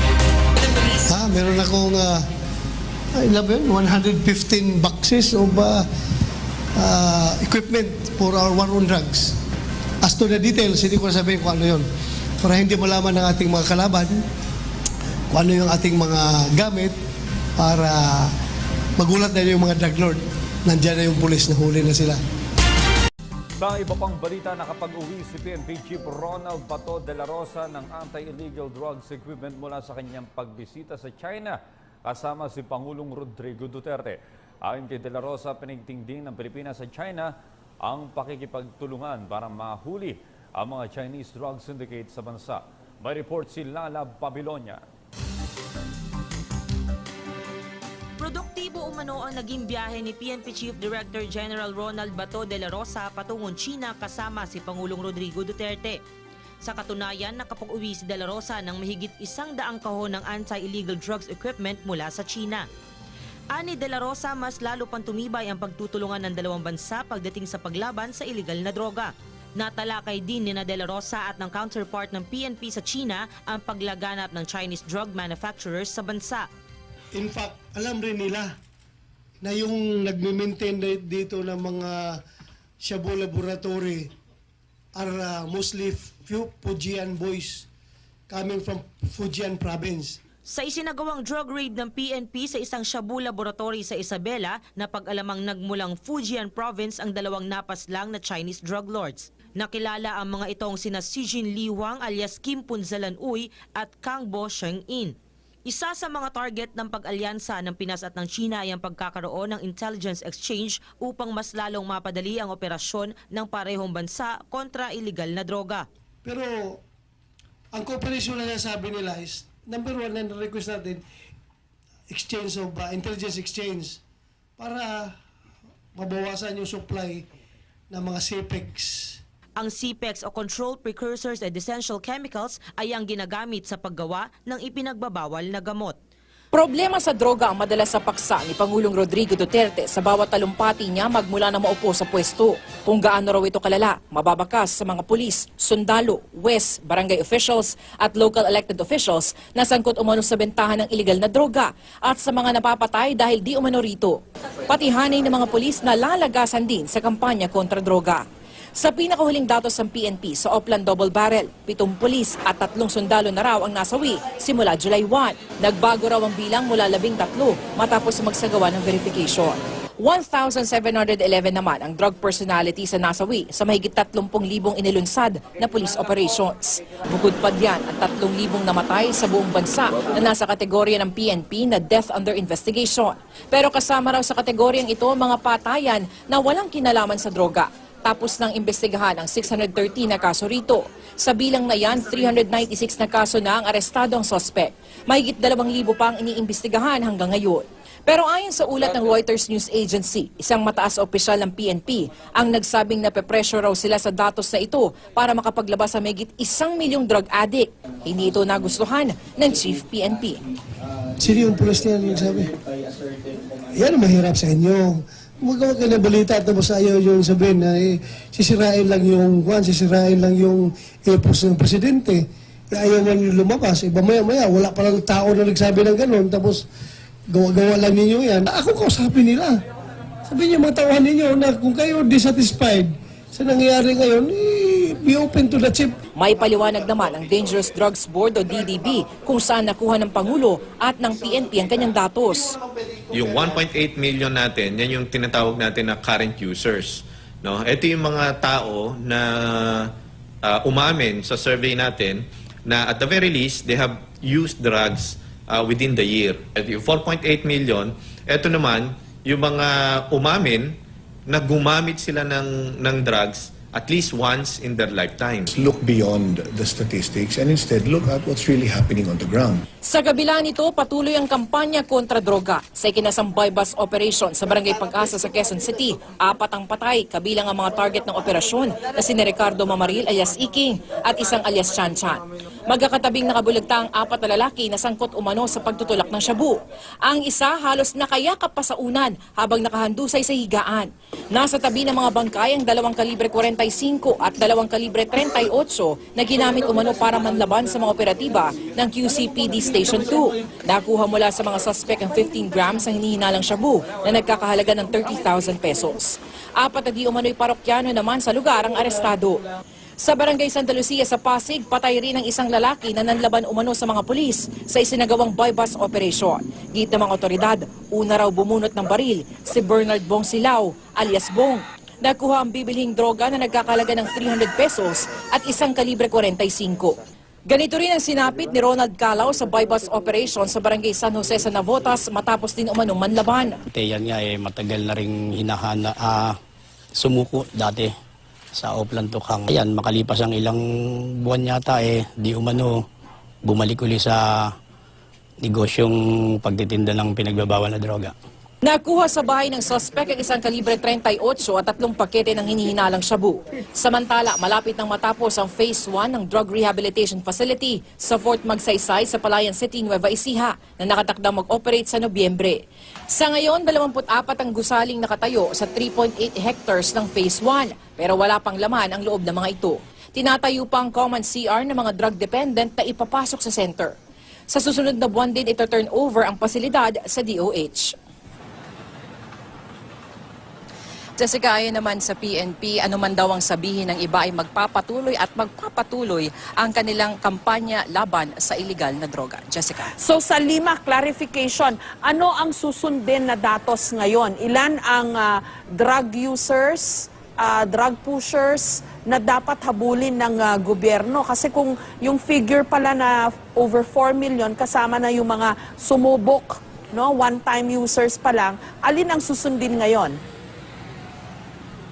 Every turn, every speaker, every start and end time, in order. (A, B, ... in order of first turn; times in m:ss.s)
0:01.0-0:02.2 A
0:03.1-0:05.8 A
0:06.8-0:09.4 A
0:10.0-0:11.9 A
0:12.4-0:14.2 A
0:15.3-0:17.0 A
0:17.6-0:18.3 A
0:19.0-0:22.2 A
0:23.6-0:37.3 B
0:37.8-0:44.8 B
0:48.2-0:56.0 C
0:56.6-1:02.6 C
1:03.5-1:16.5 C
1:17.1-1:18.5 A
1:19.4-1:22.2 A
1:22.8-1:24.1 A
1:25.0-1:27.6 A
1:28.3-1:30.2 A
1:30.5-1:45.1 C
1:45.6-1:55.8 C
1:56.2-1:56.8 A
1:57.7-2:01.0 A
2:02.1-2:04.0 A
2:04.6-2:05.1 A
2:05.9-2:07.2 A
2:07.9-2:09.2 A
2:09.6-2:16.0 C
2:16.5-2:34.2 D
2:34.7-2:38.2 D
2:38.8-3:30.4 D
3:31.2-3:32.5 A
3:33.7-3:46.6 A
3:47.3-3:49.6 A
3:50.3-3:55.9 A
3:56.2-4:02.6 D
4:03.1-4:09.9 E
4:10.4-4:25.6 E
4:25.5-4:29.6 F
4:29.8-5:09.4 D
5:10.0-5:26.9 D
5:27.5-5:33.6 D
5:33.7-5:36.4 G
5:37.0-5:37.9 G
5:38.5-5:42.8 G
5:43.4-5:44.5 G
5:45.4-5:48.1 G
5:48.6-6:02.6 D
6:03.1-6:13.9 D
6:14.5-6:17.9 D
6:21.2-6:29.9 D
6:30.0-6:50.2 H